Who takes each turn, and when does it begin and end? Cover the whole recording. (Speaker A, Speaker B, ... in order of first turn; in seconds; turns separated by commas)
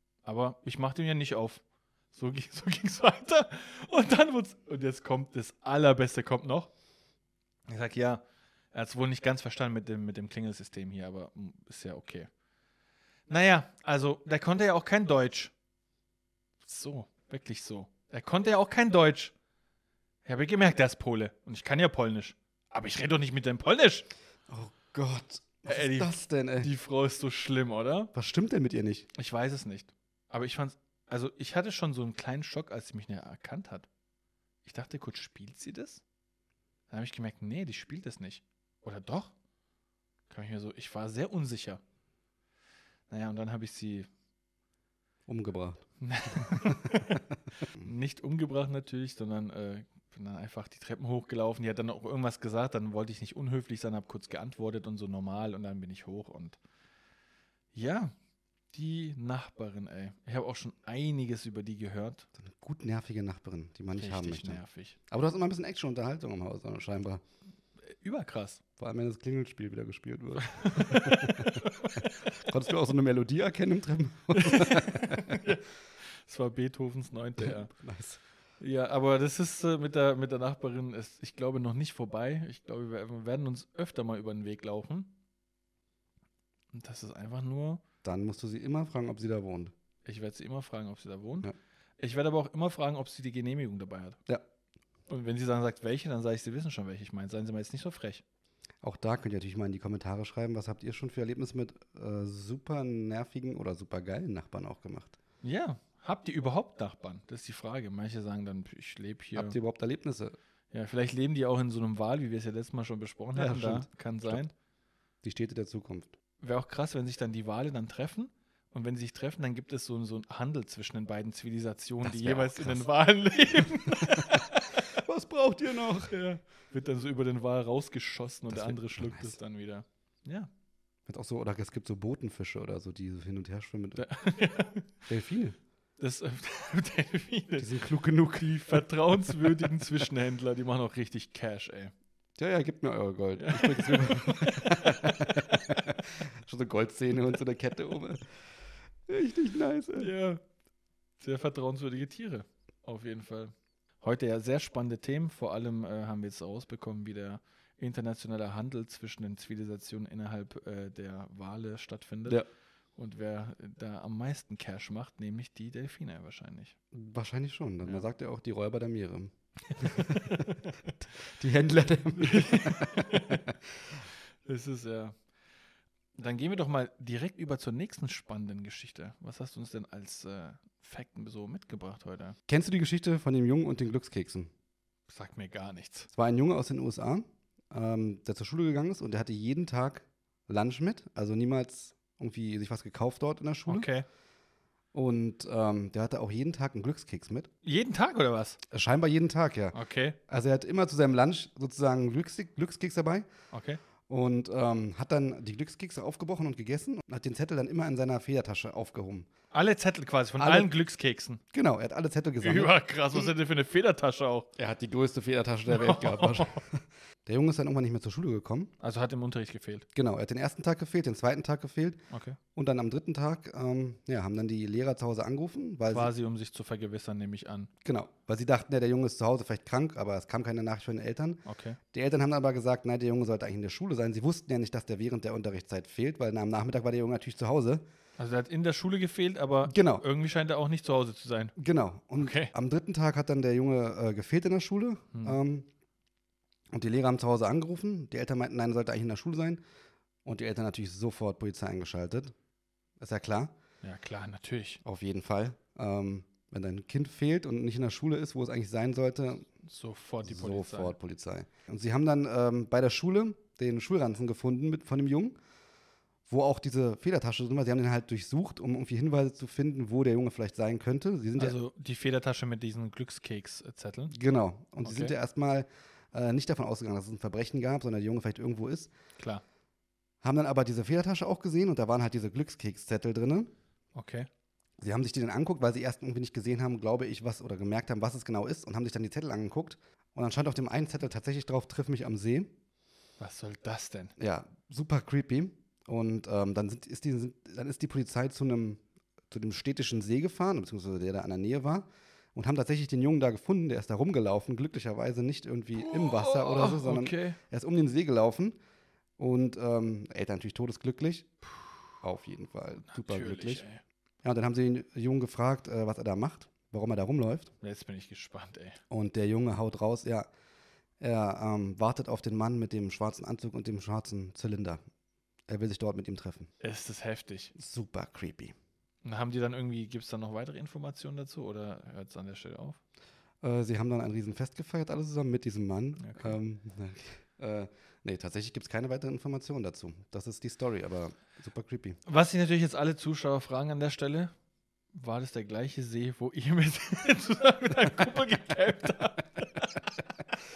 Speaker A: 0.2-6.7, Speaker A: 7.7-12.3, Speaker A: 13.3-15.5, Speaker A: 16.6-19.3, Speaker A: 20.2-24.1, Speaker B: 24.5-26.7, Speaker A: 25.7-28.1, Speaker B: 28.1-29.1, Speaker A: 29.1-33.9, Speaker A: 34.6-36.0, Speaker A: 36.9-39.3, Speaker A: 40.3-41.8, Speaker A: 43.1-44.1, Speaker B: 45.3-47.9, Speaker A: 46.0-47.2, Speaker A: 47.8-56.6, Speaker A: 57.7-58.1, Speaker A: 58.7-62.3, Speaker B: 62.4-67.2, Speaker A: 64.0-65.0, Speaker A: 67.9-68.6, Speaker B: 68.8-75.4, Speaker A: 70.5-72.3, Speaker A: 74.3-77.7, Speaker B: 77.4-78.2, Speaker A: 78.6-85.1, Speaker A: 86.7-87.8, Speaker B: 88.0-89.7, Speaker A: 90.0-94.2, Speaker A: 95.1-98.2, Speaker B: 98.8-105.2, Speaker A: 105.4-109.6, Speaker B: 109.3-110.4, Speaker A: 110.7-114.5, Speaker B: 113.4-114.4, Speaker B: 115.2-116.1, Speaker A: 116.4-124.8, Speaker B: 122.0-122.9, Speaker B: 123.5-126.1, Speaker A: 126.1-130.5, Speaker B: 128.5-129.4, Speaker B: 131.1-134.1, Speaker A: 134.0-134.9, Speaker B: 135.1-135.6, Speaker A: 136.0-137.7, Speaker B: 137.6-139.9, Speaker A: 138.4-141.9, Speaker B: 142.4-148.3, Speaker A: 143.4-145.8, Speaker B: 149.1-150.1, Speaker A: 150.0-150.4, Speaker A: 151.2-162.4, Speaker A: 163.0-166.8, Speaker B: 166.9-170.7, Speaker A: 169.8-170.8, Speaker B: 171.2-173.6, Speaker A: 172.2-173.4, Speaker A: 174.4-175.2, Speaker A: 176.2-182.4, Speaker B: 182.5-184.5, Speaker A: 185.1-186.1, Speaker B: 186.1-193.9, Speaker A: 193.7-194.1, Speaker B: 194.9-197.5, Speaker A: 197.6-198.6, Speaker B: 198.7-199.8, Speaker A: 199.7-200.2, Speaker B: 200.3-203.3, Speaker A: 203.5-203.8, Speaker B: 204.1-209.3, Speaker A: 209.5-211.4, Speaker B: 210.4-210.7, Speaker B: 211.5-213.3, Speaker A: 212.4-214.5, Speaker B: 214.6-218.7, Speaker A: 215.7-216.6, Speaker A: 218.8-219.8, Speaker B: 219.9-222.0, Speaker A: 222.1-222.4, Speaker B: 222.6-226.1, Speaker A: 225.9-227.7, Speaker B: 227.8-237.8, Speaker A: 231.5-231.8, Speaker A: 238.2-241.6, Speaker B: 239.7-240.0, Speaker B: 241.6-245.7, Speaker A: 242.2-242.5, Speaker B: 246.7-249.6, Speaker B: 250.2-252.3, Speaker B: 253.0-253.5, Speaker A: 253.8-254.8, Speaker B: 254.8-259.5, Speaker A: 259.6-261.0, Speaker B: 260.2-265.4, Speaker B: 266.3-271.6, Speaker A: 271.4-274.1, Speaker B: 274.1-278.9, Speaker A: 274.8-275.1, Speaker A: 279.2-279.4, Speaker B: 280.2-283.5, Speaker A: 283.9-284.3, Speaker B: 284.8-292.5, Speaker A: 293.2-294.1, Speaker B: 294.2-308.6, Speaker A: 305.8-307.4, Speaker B: 309.2-311.4, Speaker B: 312.0-313.6, Speaker A: 312.9-313.8, Speaker B: 314.2-317.5, Speaker A: 317.6-318.8, Speaker B: 318.9-320.3, Speaker B: 321.0-324.8, Speaker B: 325.5-326.5, Speaker A: 326.6-327.5, Speaker B: 327.6-328.5, Speaker A: 329.0-332.8, Speaker B: 333.4-342.0, Speaker A: 336.0-336.4, Speaker A: 342.1-344.3, Speaker A: 344.9-349.9